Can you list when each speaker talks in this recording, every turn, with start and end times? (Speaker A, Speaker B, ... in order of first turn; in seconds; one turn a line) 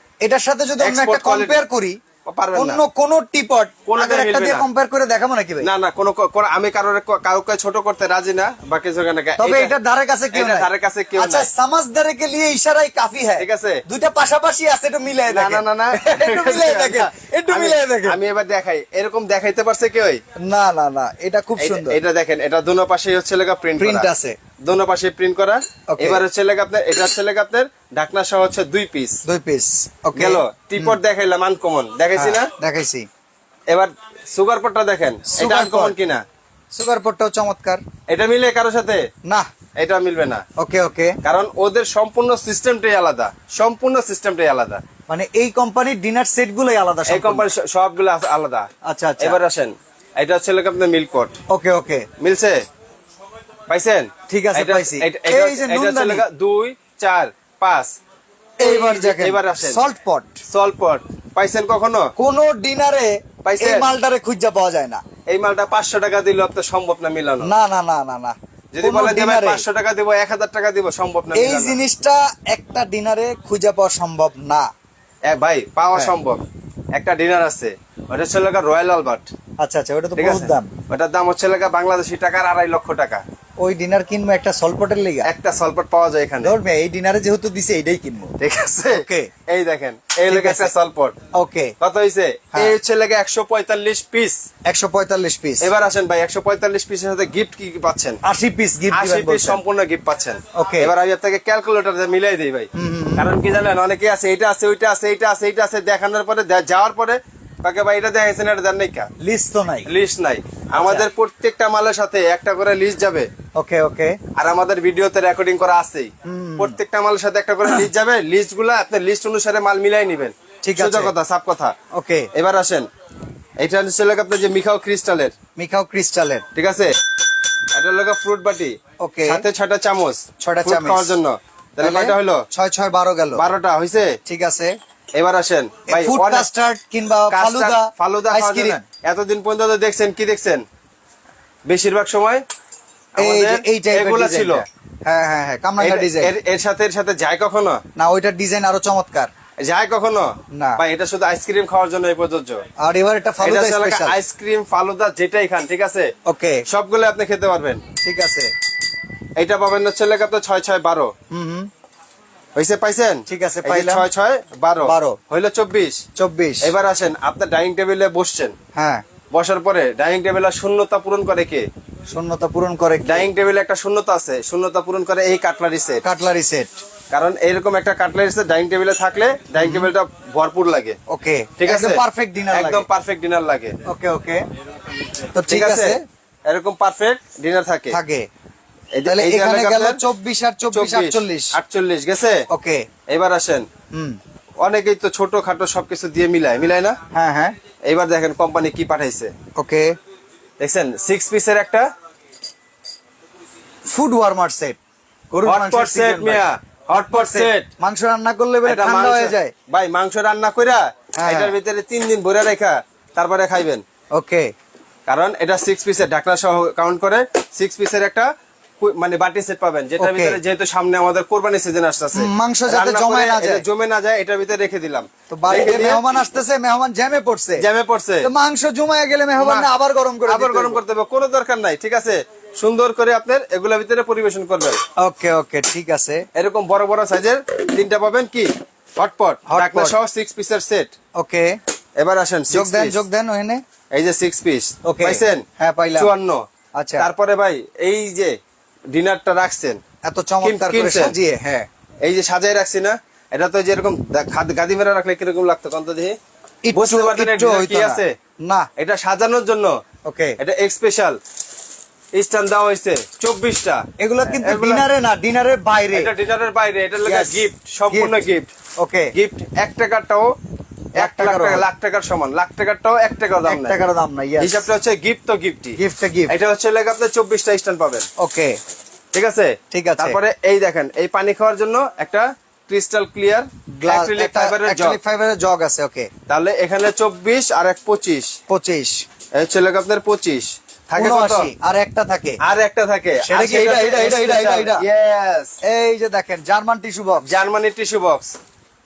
Speaker A: 0.2-2.0
Speaker B: 0.8-1.6
Speaker B: 2.3-2.8
Speaker A: 2.5-5.7
Speaker B: 3.9-4.7
Speaker B: 5.6-9.7
Speaker A: 9.4-18.2
Speaker B: 10.3-11.5
Speaker B: 13.4-13.8
Speaker B: 15.3-20.2
Speaker A: 20.4-22.0
Speaker B: 21.6-24.1
Speaker A: 23.8-24.4
Speaker B: 24.6-29.2
Speaker A: 25.9-26.2
Speaker A: 29.2-31.0
Speaker B: 30.1-32.5
Speaker A: 32.1-33.1
Speaker B: 33.7-36.2
Speaker A: 35.3-35.9
Speaker A: 36.7-37.8
Speaker B: 38.1-39.0
Speaker B: 39.8-40.4
Speaker A: 40.6-41.2
Speaker B: 41.2-44.8
Speaker A: 45.1-47.5
Speaker B: 47.1-48.7
Speaker A: 48.8-49.4
Speaker B: 49.2-51.4
Speaker A: 51.5-52.1
Speaker B: 52.2-52.6
Speaker B: 53.7-57.9
Speaker A: 54.3-56.2
Speaker A: 58.6-60.3
Speaker B: 58.6-59.8
Speaker B: 60.5-62.1
Speaker A: 62.2-65.0
Speaker B: 63.4-63.9
Speaker B: 65.3-67.5
Speaker A: 67.4-69.6
Speaker B: 68.7-71.8
Speaker A: 71.3-74.7
Speaker B: 75.2-76.4
Speaker B: 76.9-79.3
Speaker A: 79.6-80.7
Speaker B: 80.2-83.2
Speaker A: 83.6-85.3
Speaker B: 85.2-86.5
Speaker A: 86.4-88.3
Speaker B: 88.4-91.2
Speaker A: 88.9-89.3
Speaker A: 90.3-90.7
Speaker A: 91.3-91.7
Speaker B: 91.8-94.4
Speaker A: 94.7-95.7
Speaker B: 95.6-98.2
Speaker A: 98.2-99.6
Speaker B: 98.9-109.1
Speaker A: 100.5-100.9
Speaker A: 102.7-103.3
Speaker A: 109.2-109.9
Speaker B: 109.8-113.3
Speaker A: 110.7-111.1
Speaker A: 113.5-114.2
Speaker B: 114.3-121.8
Speaker A: 116.2-116.8
Speaker A: 120.6-121.1
Speaker A: 121.9-122.3
Speaker B: 122.3-122.9
Speaker B: 123.6-125.3
Speaker A: 125.5-126.4
Speaker B: 126.5-126.9
Speaker B: 127.7-132.4
Speaker A: 129.0-129.4
Speaker A: 130.4-131.1
Speaker A: 131.8-133.4
Speaker B: 133.3-134.2
Speaker A: 134.3-134.7
Speaker B: 135.2-136.5
Speaker A: 135.9-138.8
Speaker B: 137.3-140.6
Speaker B: 141.7-142.4
Speaker B: 143.2-144.6
Speaker A: 143.2-146.3
Speaker B: 145.8-147.8
Speaker A: 147.9-149.3
Speaker B: 149.6-152.6
Speaker A: 150.5-150.8
Speaker A: 152.8-154.2
Speaker B: 153.4-156.1
Speaker A: 156.2-156.7
Speaker B: 156.7-157.8
Speaker A: 158.0-158.5
Speaker B: 159.4-161.1
Speaker A: 161.3-161.7
Speaker B: 162.5-166.0
Speaker A: 163.3-164.1
Speaker A: 164.8-165.2
Speaker A: 166.2-166.7
Speaker B: 166.6-168.6
Speaker A: 168.7-169.0
Speaker B: 169.3-171.7
Speaker A: 172.1-173.3
Speaker B: 173.0-176.0
Speaker A: 176.0-176.7
Speaker B: 177.1-181.0
Speaker A: 179.6-179.9
Speaker A: 181.1-182.8
Speaker B: 181.6-183.8
Speaker A: 183.8-184.4
Speaker A: 185.3-186.0
Speaker B: 185.5-188.0
Speaker A: 187.9-188.3
Speaker B: 188.9-190.0
Speaker A: 189.1-191.6
Speaker B: 190.7-192.4
Speaker A: 192.5-192.9
Speaker B: 193.1-193.7
Speaker A: 193.9-194.2
Speaker B: 194.6-197.0
Speaker A: 197.1-197.5
Speaker B: 197.8-199.3
Speaker A: 199.6-199.9
Speaker B: 200.6-201.9
Speaker A: 203.9-204.8
Speaker A: 205.3-206.4
Speaker B: 205.4-207.7
Speaker A: 207.1-209.5
Speaker B: 208.6-213.8
Speaker A: 211.2-211.5
Speaker A: 214.2-214.5
Speaker B: 215.1-226.1
Speaker A: 220.0-220.4
Speaker A: 222.1-223.6
Speaker A: 225.3-227.6
Speaker B: 227.6-228.3
Speaker A: 228.2-230.8
Speaker B: 229.4-229.7
Speaker B: 230.3-234.8
Speaker A: 235.0-236.2
Speaker B: 236.3-240.9
Speaker A: 239.5-239.9
Speaker A: 241.1-241.6
Speaker B: 242.0-243.0
Speaker A: 242.5-243.6
Speaker B: 243.9-245.4
Speaker A: 244.8-246.1
Speaker B: 245.9-246.4
Speaker A: 246.8-247.1
Speaker B: 247.0-248.3
Speaker B: 248.9-249.8
Speaker A: 250.0-251.7
Speaker B: 250.4-251.2
Speaker B: 252.0-256.2
Speaker A: 256.6-258.7
Speaker B: 256.7-258.1
Speaker B: 258.8-259.8
Speaker A: 260.1-260.4
Speaker B: 260.4-261.2
Speaker B: 262.1-264.9
Speaker A: 264.0-266.1
Speaker B: 265.9-268.5
Speaker A: 267.0-268.2
Speaker A: 268.8-269.1
Speaker B: 269.1-270.3
Speaker A: 270.9-271.6
Speaker B: 271.0-273.8
Speaker A: 273.4-274.6
Speaker B: 274.4-278.1
Speaker A: 275.8-276.3
Speaker A: 278.2-278.6
Speaker B: 279.1-285.0
Speaker A: 279.7-280.2
Speaker A: 283.7-286.1
Speaker B: 286.3-288.4
Speaker A: 288.5-289.0
Speaker B: 289.4-291.5
Speaker A: 291.0-292.4
Speaker B: 292.4-295.5
Speaker A: 293.2-294.8
Speaker A: 295.6-297.2
Speaker B: 297.2-298.4